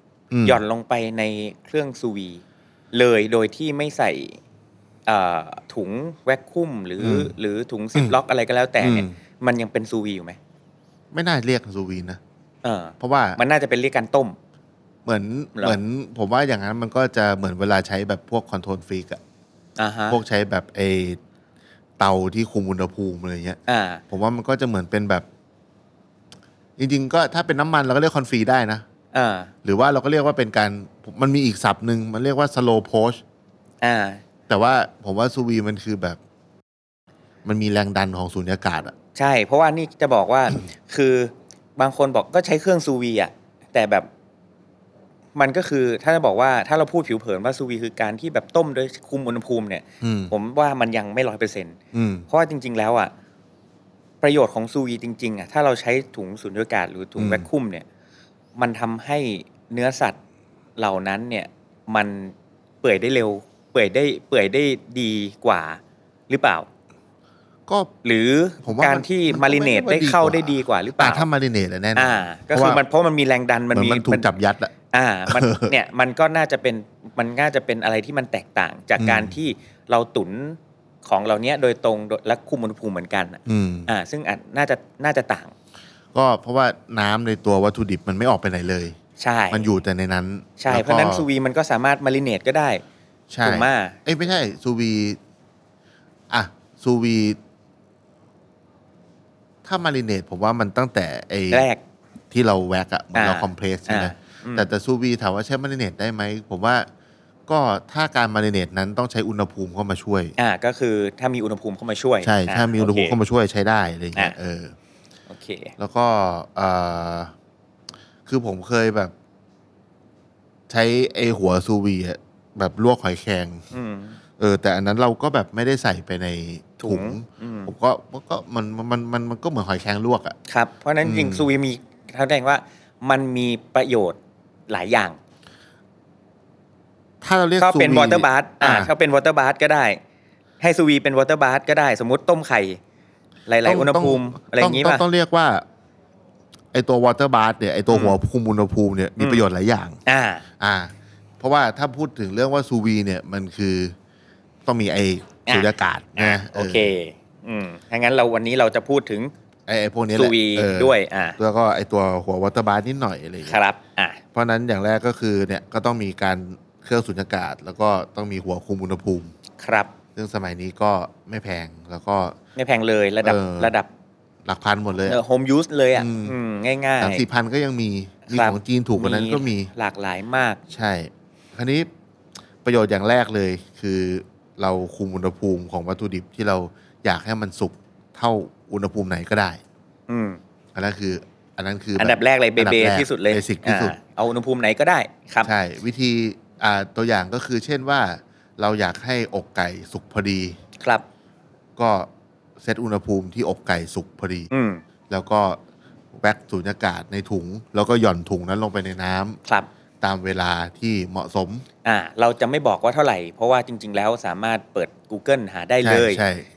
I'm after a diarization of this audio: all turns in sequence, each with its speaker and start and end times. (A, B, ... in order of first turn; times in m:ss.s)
0:00.3-0:00.6 A
0:00.4-0:02.4 B
0:02.9-0:04.4 B
0:05.1-0:10.4 B
0:07.0-0:07.3 A
0:08.8-0:09.1 A
0:11.1-0:12.2 A
0:12.6-0:14.4 B
0:13.0-0:13.4 A
0:15.0-0:19.2 A
0:19.8-0:20.2 B
0:20.1-0:21.2 A
0:22.0-0:23.6 A
0:23.7-0:24.0 B
0:24.1-0:25.3 A
0:26.8-0:28.8 A
0:29.1-0:29.5 B
0:29.6-0:33.2 A
0:33.8-0:34.2 B
0:34.5-0:36.2 A
0:37.4-0:39.0 A
0:39.2-0:44.1 B
0:45.4-0:51.8 B
0:50.0-0:50.3 A
0:51.9-0:52.3 A
0:52.3-0:53.1 B
0:54.2-0:57.8 B
0:57.2-0:57.5 A
0:58.6-1:00.2 B
1:00.8-1:06.7 B
1:07.7-1:07.9 A
1:08.0-1:11.3 B
1:08.6-1:12.8 A
1:12.0-1:14.3 B
1:13.7-1:14.7 A
1:14.9-1:25.5 B
1:15.3-1:15.7 A
1:19.0-1:19.4 A
1:23.5-1:23.9 A
1:26.1-1:29.0 A
1:29.2-1:29.7 B
1:29.5-1:31.3 A
1:30.6-1:32.8 B
1:33.3-1:35.2 A
1:33.4-1:34.0 B
1:36.3-1:37.4 A
1:39.6-1:41.7 A
1:41.5-1:41.8 B
1:42.3-1:46.9 A
1:43.1-1:44.7 B
1:47.5-1:50.4 A
1:50.4-1:53.2 B
1:52.2-1:54.8 A
1:55.3-1:55.7 B
1:55.8-1:57.3 A
1:58.3-1:59.1 A
2:00.7-2:03.6 A
2:03.7-2:04.2 B
2:04.4-2:10.4 A
2:06.8-2:07.7 B
2:10.5-2:14.2 B
2:11.0-2:11.5 A
2:14.7-2:15.2 B
2:17.2-2:18.9 A
2:17.6-2:20.0 B
2:20.6-2:22.8 B
2:23.5-2:25.0 B
2:23.6-2:25.6 A
2:26.7-2:30.0 A
2:27.9-2:28.2 B
2:30.1-2:30.4 B
2:30.6-2:34.0 A
2:34.7-2:36.9 A
2:35.5-2:39.3 B
2:39.7-2:43.6 A
2:40.2-2:41.4 B
2:43.4-2:44.2 B
2:44.3-2:49.3 A
2:49.6-2:49.9 B
2:50.2-2:52.4 A
2:52.6-2:53.9 B
2:53.2-2:53.7 A
2:54.4-2:55.2 A
2:55.1-2:57.2 B
2:55.9-2:56.4 A
2:57.0-2:59.7 A
2:58.3-3:00.6 B
3:00.7-3:01.9 A
3:02.6-3:09.6 A
3:10.1-3:10.4 B
3:10.8-3:14.0 A
3:12.0-3:15.5 B
3:15.4-3:20.6 A
3:20.8-3:21.0 B
3:21.8-3:24.5 A
3:24.5-3:24.8 B
3:25.1-3:25.6 A
3:26.1-3:29.4 A
3:30.0-3:31.7 A
3:31.8-3:36.2 B
3:35.8-3:36.5 A